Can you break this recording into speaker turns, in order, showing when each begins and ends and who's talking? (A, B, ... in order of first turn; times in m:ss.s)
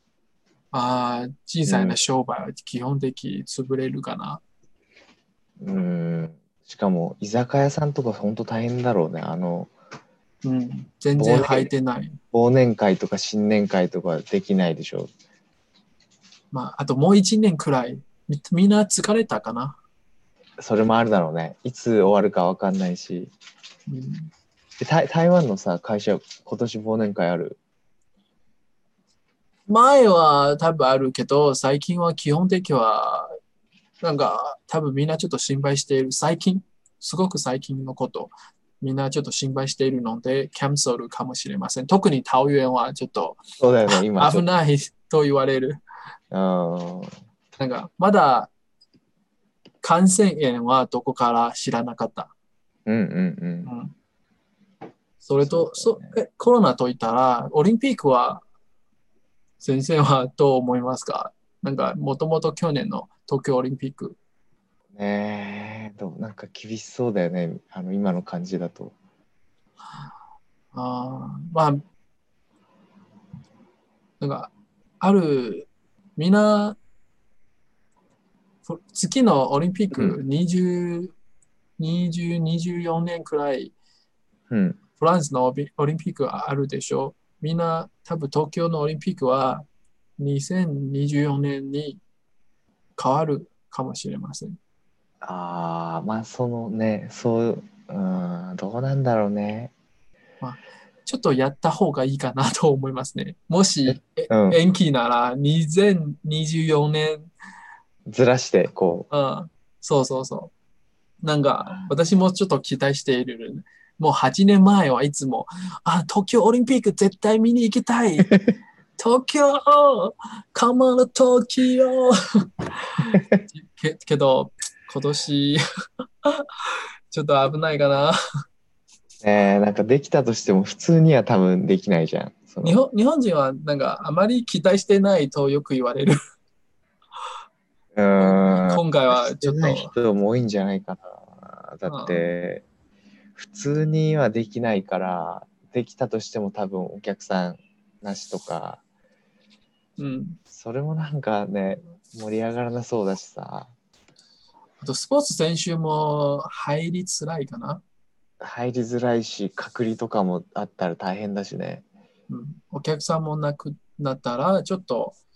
0:00.7-0:04.4 A
0:01.7-0:02.0 B
0:05.6-0:09.7 B
0:10.4-0:12.2 A
0:11.2-0:11.7 B
0:12.3-0:15.1 B
0:16.5-0:19.8 A
0:20.6-0:23.3 B
0:23.9-0:24.3 A
0:24.8-0:27.6 B
0:29.7-0:33.3 A
0:34.0-0:45.8 A
0:43.6-0:44.5 B
0:46.3-0:47.1 B
0:47.6-0:48.5 A
0:49.8-0:52.3 A
0:52.9-0:53.7 B
0:53.6-0:53.9 A
0:55.2-0:58.4 A
0:55.4-0:56.2 B
0:59.6-1:04.2 A
1:04.9-1:08.9 B
1:10.7-1:11.8 A
1:14.2-1:16.8 A
1:18.7-1:21.1 A
1:21.8-1:23.7 A
1:24.5-1:24.8 B
1:25.0-1:29.6 A
1:30.2-1:32.0 A
1:33.0-1:34.6 A
1:35.2-1:39.7 B
1:40.4-1:47.3 A
1:43.9-1:44.6 B
1:48.1-1:49.1 B
1:49.1-1:50.5 A
1:51.2-1:58.3 A
1:51.7-1:51.9 B
1:59.0-2:05.6 A
2:07.1-2:08.2 A
2:09.2-2:12.8 B
2:12.6-2:16.2 A
2:18.0-2:22.6 B
2:18.2-2:19.9 A
2:21.8-2:22.3 A
2:23.4-2:28.8 B
2:30.0-2:30.4 A
2:30.5-2:33.7 B
2:34.8-2:37.8 A
2:38.4-2:41.8 B
2:42.3-2:45.2 A